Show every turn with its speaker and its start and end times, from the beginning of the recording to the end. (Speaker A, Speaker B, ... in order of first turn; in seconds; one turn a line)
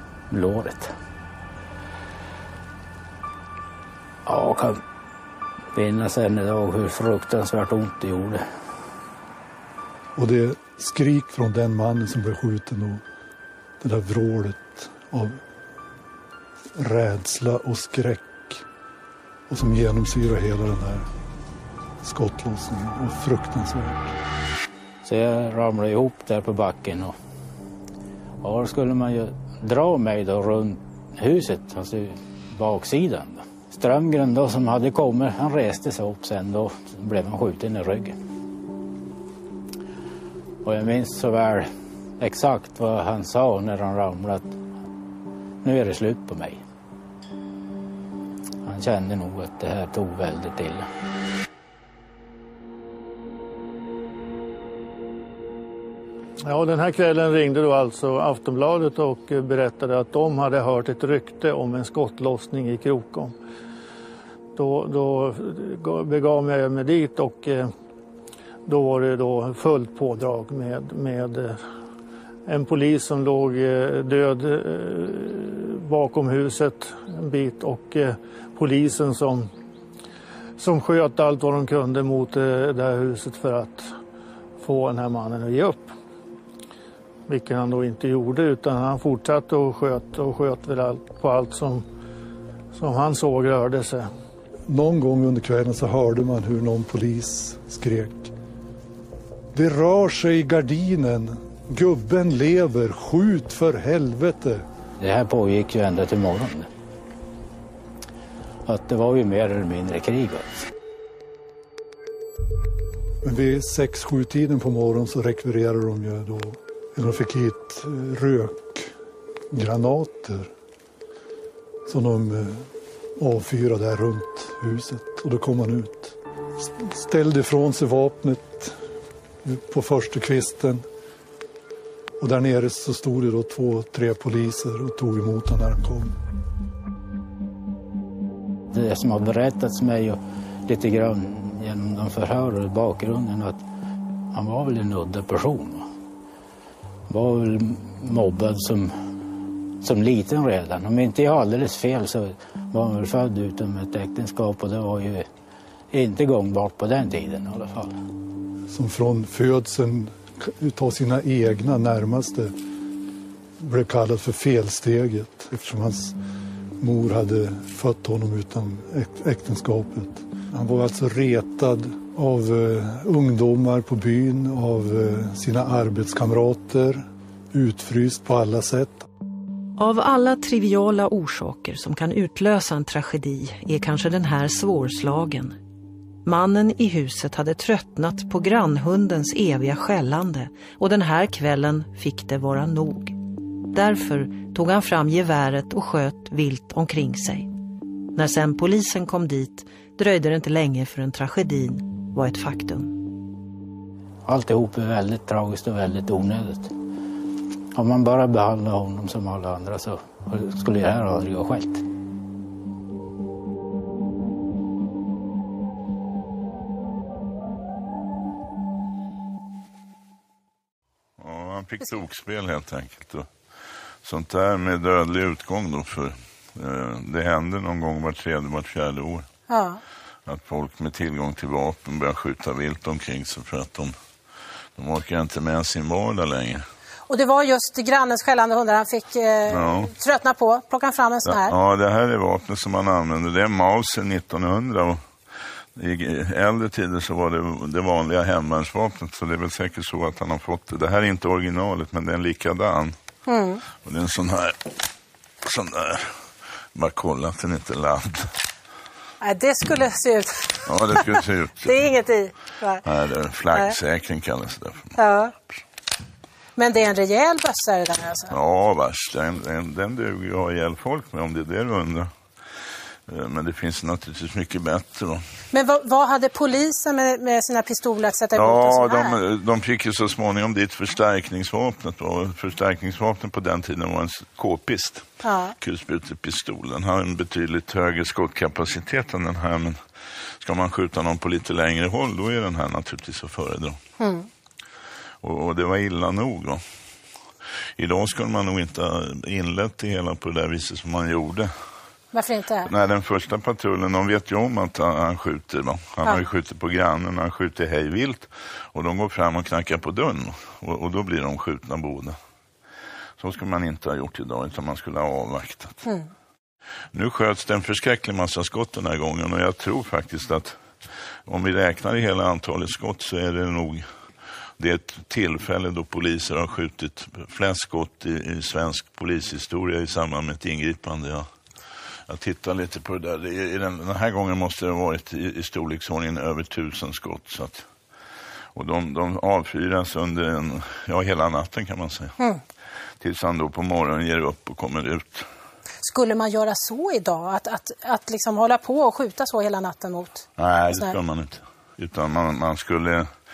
Speaker A: 0.3-0.9
Speaker A: 4.2-4.8
Speaker A: 5.7-8.4
Speaker B: 10.2-13.0
Speaker B: 13.8-15.4
Speaker B: 16.8-18.6
Speaker B: 19.5-21.1
Speaker B: 22.0-24.1
Speaker A: 25.0-27.1
Speaker A: 28.4-38.1
Speaker A: 40.6-41.7
Speaker A: 42.2-44.6
Speaker A: 45.6-46.6
Speaker A: 48.6-50.9
Speaker C: 56.4-63.3
Speaker C: 64.5-67.7
Speaker C: 68.7-71.6
Speaker C: 72.5-79.5
Speaker C: 80.6-83.9
Speaker C: 84.6-85.9
Speaker C: 87.3-91.8
Speaker C: 92.7-94.1
Speaker B: 94.7-98.3
Speaker B: 99.5-104.6
Speaker A: 105.0-106.7
Speaker A: 108.7-110.7
Speaker B: 113.2-118.9
Speaker B: 119.5-120.5
Speaker B: 121.9-126.2
Speaker B: 126.8-128.7
Speaker B: 129.4-130.8
Speaker B: 132.2-136.1
Speaker A: 138.7-143.6
Speaker A: 144.3-145.8
Speaker A: 147.1-148.9
Speaker A: 149.8-155.3
Speaker A: 155.9-157.9
Speaker B: 158.7-162.5
Speaker B: 163.6-166.2
Speaker B: 166.8-179.1
Speaker D: 179.8-185.6
Speaker D: 186.2-193.2
Speaker D: 193.7-197.5
Speaker D: 198.1-203.0
Speaker A: 204.2-206.7
Speaker A: 207.7-211.8
Speaker E: 221.2-223.3
Speaker E: 224.0-229.3
Speaker F: 229.5-229.8
Speaker E: 230.2-233.9
Speaker E: 234.8-236.6
Speaker F: 237.1-241.5
Speaker E: 239.5-239.9
Speaker E: 241.2-245.0
Speaker E: 245.8-252.9
Speaker F: 253.3-253.7
Speaker E: 253.8-254.7
Speaker E: 255.4-256.1
Speaker E: 256.7-258.3
Speaker F: 259.2-262.8
Speaker E: 260.6-261.8
Speaker E: 262.8-265.0
Speaker F: 263.5-263.8
Speaker F: 264.9-265.3
Speaker F: 266.6-268.4
Speaker E: 268.3-272.1
Speaker E: 273.1-275.2
Speaker F: 275.5-279.2
Speaker E: 278.3-285.1
Speaker F: 285.2-285.5
Speaker E: 285.6-289.8
Speaker E: 290.4-293.8
Speaker F: 294.0-294.3
Speaker E: 295.2-296.6
Speaker E: 297.8-301.5
Speaker F: 302.1-302.7
Speaker E: 302.6-312.1
Speaker E: 313.2-315.9
Speaker E: 316.9-320.6
Speaker E: 321.2-323.9
Speaker E: 324.6-331.3
Speaker E: 332.1-337.6
Speaker E: 338.5-342.1
Speaker E: 343.0-345.3
Speaker F: 345.8-351.0
Speaker E: 350.4-353.1